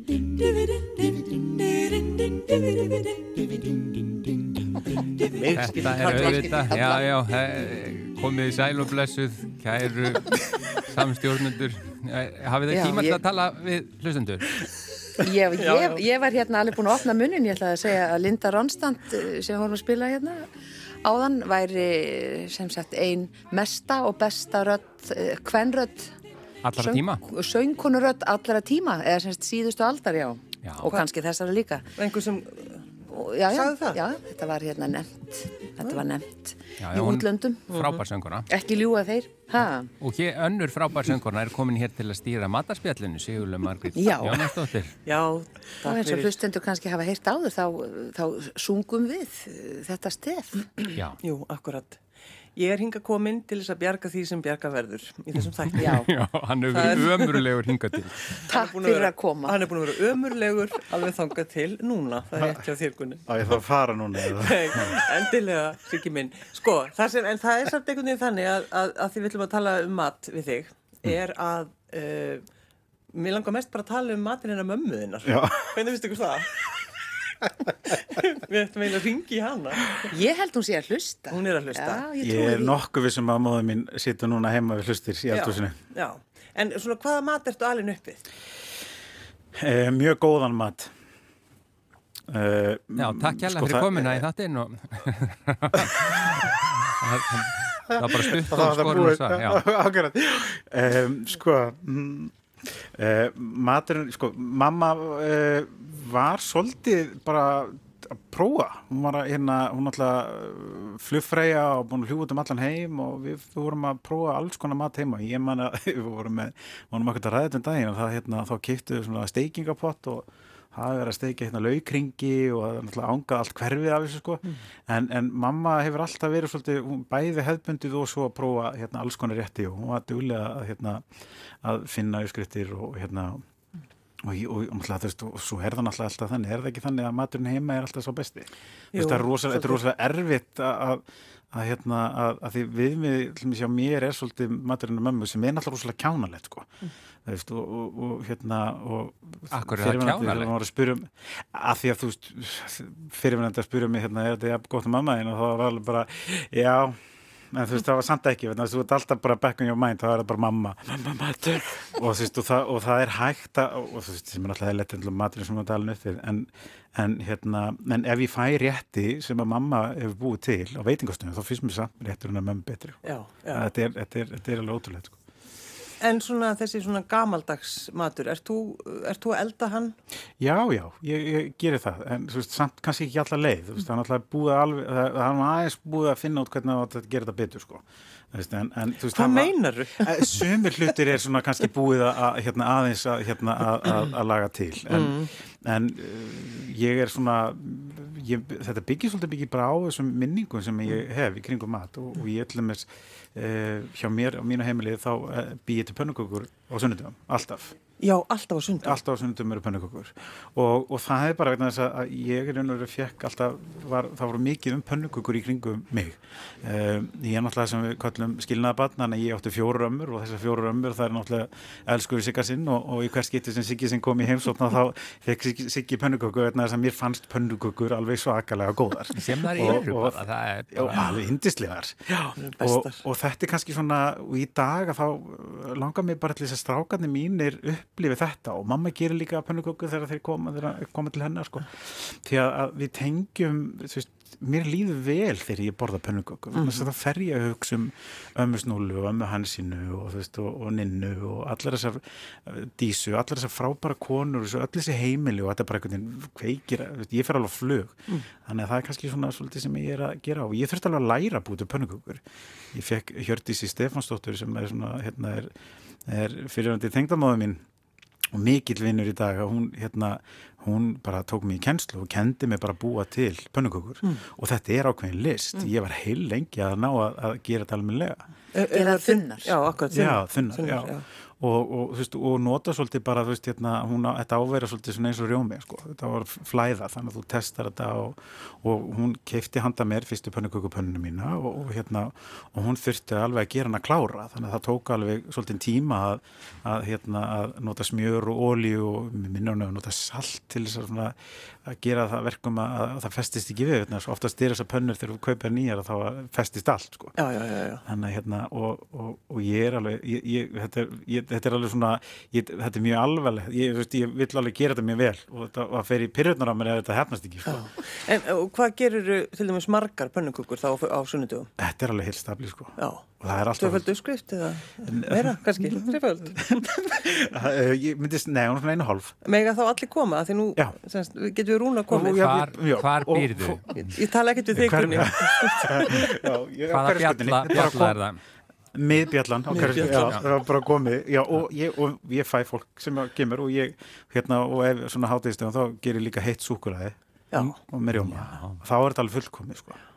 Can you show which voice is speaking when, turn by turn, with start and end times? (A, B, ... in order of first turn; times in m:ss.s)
0:01.4-0:03.0 A
0:05.2-0:06.6 B
0:05.6-0:14.6 C
0:06.0-0:07.1 A
0:12.7-0:13.2 A
0:15.2-0:20.5 A
0:15.6-0:16.0 B
0:21.0-0:26.1 A
0:26.6-0:27.2 C
0:26.8-0:31.9 A
0:30.6-0:30.9 C
0:32.0-0:32.9 B
0:33.1-0:37.6 A
0:33.5-0:34.0 B
0:36.8-0:38.5 C
0:37.7-0:38.0 B
0:38.5-0:39.9 A
0:40.0-0:45.0 C
0:44.0-0:44.5 A
0:45.1-0:46.4 B
0:45.8-0:50.9 A
0:50.9-0:51.2 C
0:51.2-0:52.0 B
0:52.6-0:56.0 B
0:55.6-0:58.4 C
0:55.8-0:56.1 A
0:56.7-0:57.5 B
0:58.3-1:03.3 B
0:58.4-0:59.6 A
1:02.4-1:02.6 D
1:03.3-1:05.0 D
1:04.2-1:12.4 B
1:13.1-1:16.7 B
1:15.2-1:15.8 D
1:17.9-1:20.0 B
1:20.0-1:22.8 A
1:21.3-1:22.1 B
1:22.2-1:25.8 D
1:25.3-1:28.2 B
1:29.6-1:30.9 D
1:32.3-1:34.2 D
1:33.0-1:39.6 C
1:38.0-2:11.0 D
2:11.6-2:13.4 D
2:14.2-2:26.7 D
2:18.9-2:19.8 B
2:27.2-2:37.0 D
2:29.5-2:30.5 C
2:37.5-2:55.2 D
2:53.0-2:53.6 B
2:56.0-3:00.0 B
3:00.4-3:27.8 D
3:09.1-3:10.5 B
3:14.9-3:15.3 B
3:28.0-3:29.0 B
3:28.8-4:22.2 D
3:49.2-3:51.2 C
3:52.4-3:53.0 B
4:06.6-4:06.8 B
4:22.7-4:25.5 D
4:26.1-4:27.6 D
4:28.3-4:38.2 D
4:38.5-4:41.0 B
4:38.7-4:39.5 A
4:39.9-5:07.2 D
5:07.2-5:07.8 B
5:07.8-5:17.7 D
5:17.5-5:21.5 B
5:21.6-5:23.9 D
5:22.8-5:26.7 B
5:24.8-5:25.3 D
5:26.6-5:29.2 D
5:29.2-5:32.2 B
5:31.9-5:33.9 D
5:32.2-5:33.7 C
5:33.7-5:36.1 B
5:34.5-5:38.0 D
5:36.7-5:38.2 C
5:38.7-5:47.0 D
5:39.5-5:40.2 B
5:39.6-5:40.2 C
5:47.3-5:47.6 B
5:47.5-5:49.8 D
5:47.9-5:48.6 C